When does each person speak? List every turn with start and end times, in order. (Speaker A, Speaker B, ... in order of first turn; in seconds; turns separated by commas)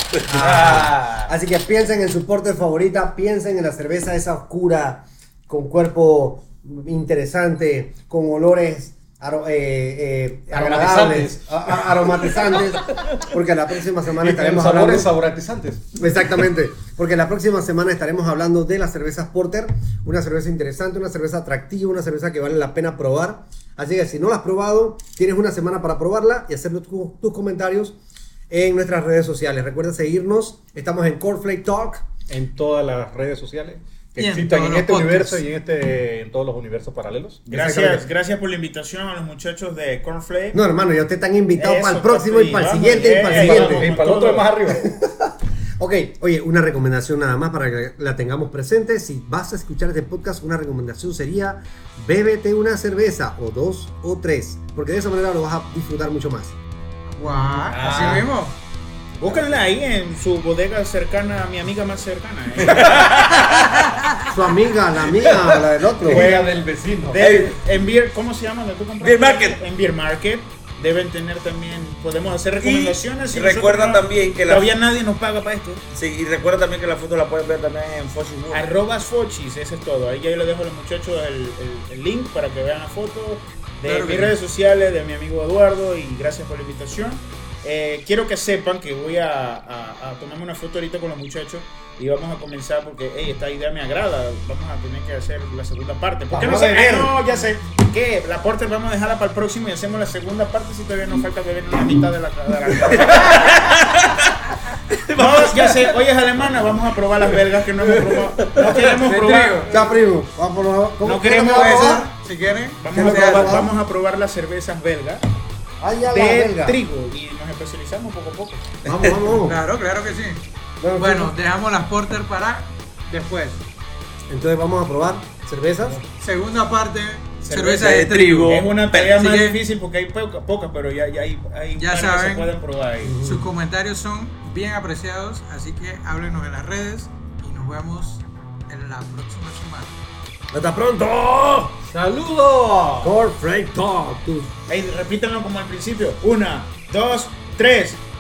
Speaker A: 0.3-15.1, Speaker B: 0.3-1.3, Speaker B: 10.5-13.3, Speaker B: 14.1-16.0, Speaker A: 15.9-27.9, Speaker A: 28.5-32.1, Speaker B: 32.3-37.5, Speaker C: 34.1-35.4, Speaker D: 37.5-40.6, Speaker A: 37.5-38.0, Speaker A: 40.5-43.9, Speaker D: 41.5-44.6, Speaker B: 43.2-44.9, Speaker A: 44.7-56.5, Speaker C: 57.1-58.5, Speaker B: 57.4-58.3, Speaker A: 57.8-58.2, Speaker D: 59.2-63.5, Speaker E: 62.6-63.8, Speaker A: 64.2-66.3, Speaker B: 65.1-67.2, Speaker D: 66.0-75.8, Speaker E: 67.2-67.5, Speaker E: 69.0-69.6, Speaker E: 72.6-74.7, Speaker E: 75.9-78.7, Speaker D: 78.5-103.7, Speaker C: 83.8-84.3, Speaker A: 96.3-97.2, Speaker E: 102.8-105.9, Speaker D: 105.1-109.8, Speaker B: 107.9-108.8, Speaker C: 108.6-109.8, Speaker A: 109.7-112.1, Speaker D: 111.0-112.1, Speaker C: 111.5-113.6, Speaker D: 112.8-115.2, Speaker A: 112.9-113.7, Speaker A: 115.8-116.8, Speaker D: 116.1-118.8, Speaker A: 118.8-119.6, Speaker C: 119.0-120.4, Speaker A: 120.8-121.3, Speaker C: 121.0-123.6, Speaker A: 124.3-126.0, Speaker C: 126.2-129.6, Speaker D: 127.4-133.2, Speaker E: 127.7-129.1, Speaker C: 131.8-132.5, Speaker A: 133.0-133.5, Speaker C: 133.2-139.9, Speaker A: 140.5-141.8, Speaker B: 141.8-143.2, Speaker A: 143.0-144.5, Speaker D: 144.7-148.0